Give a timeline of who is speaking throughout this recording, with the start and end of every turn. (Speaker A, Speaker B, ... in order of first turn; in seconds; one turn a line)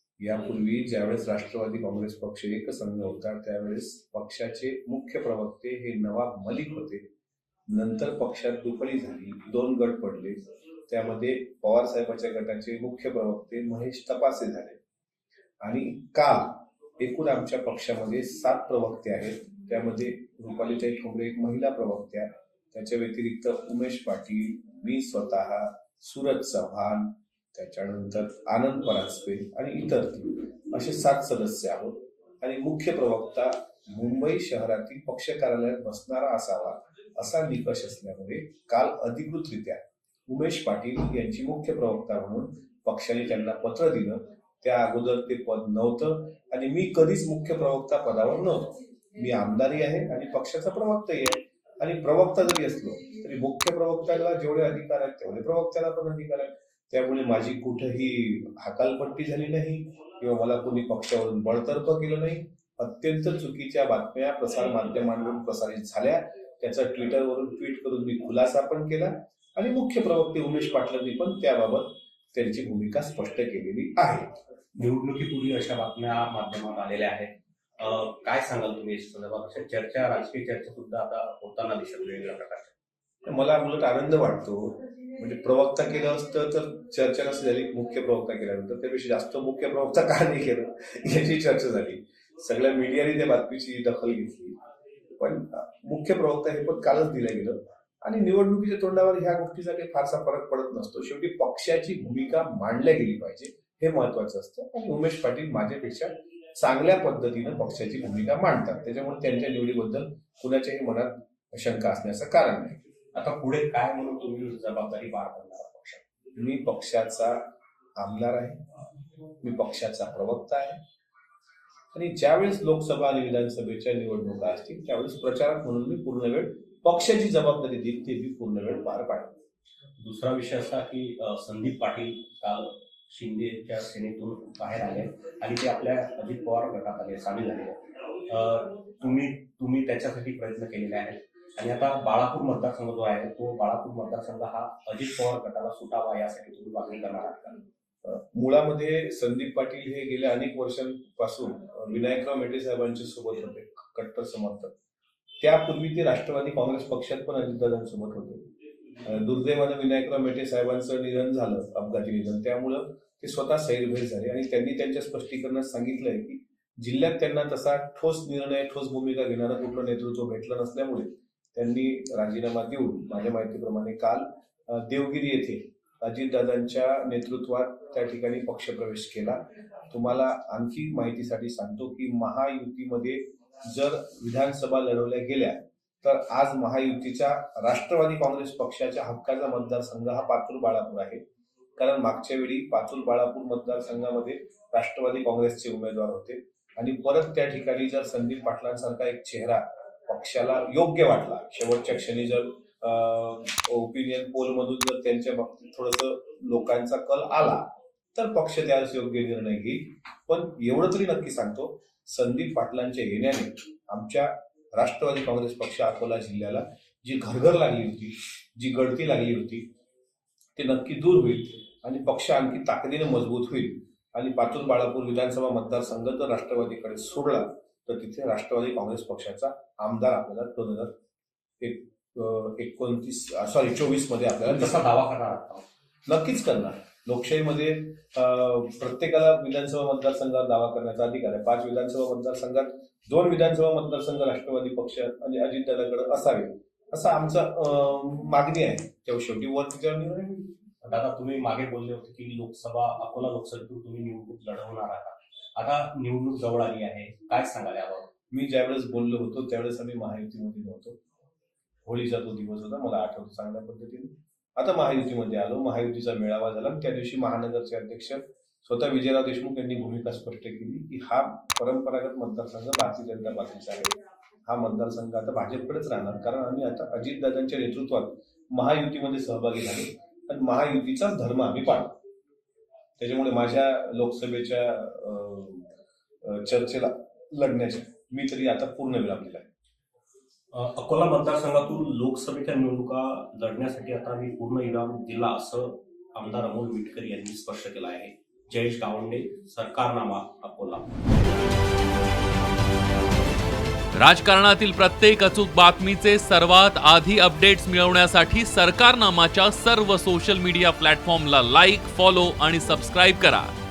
Speaker A: 0.2-7.0
Speaker A: 7.7-14.8
Speaker A: 15.6-74.3
Speaker B: 74.8-82.8
Speaker A: 83.2-94.5
Speaker A: 95.2-112.8
Speaker B: 113.1-116.0
Speaker A: 116.4-117.4
Speaker A: 118.0-118.6
Speaker A: 119.4-120.8
Speaker A: 121.9-129.3
Speaker B: 130.0-147.6
Speaker A: 148.0-154.7
Speaker A: 155.4-158.5
Speaker A: 159.0-191.2
Speaker A: 191.8-219.7
Speaker A: 220.6-230.9
Speaker A: 231.6-234.8
Speaker B: 234.5-235.6
Speaker A: 236.1-250.5
Speaker B: 250.8-258.1
Speaker A: 258.3-261.0
Speaker A: 261.9-281.9
Speaker A: 283.0-285.7
Speaker A: 286.2-289.5
Speaker B: 290.5-301.0
Speaker C: 304.0-313.5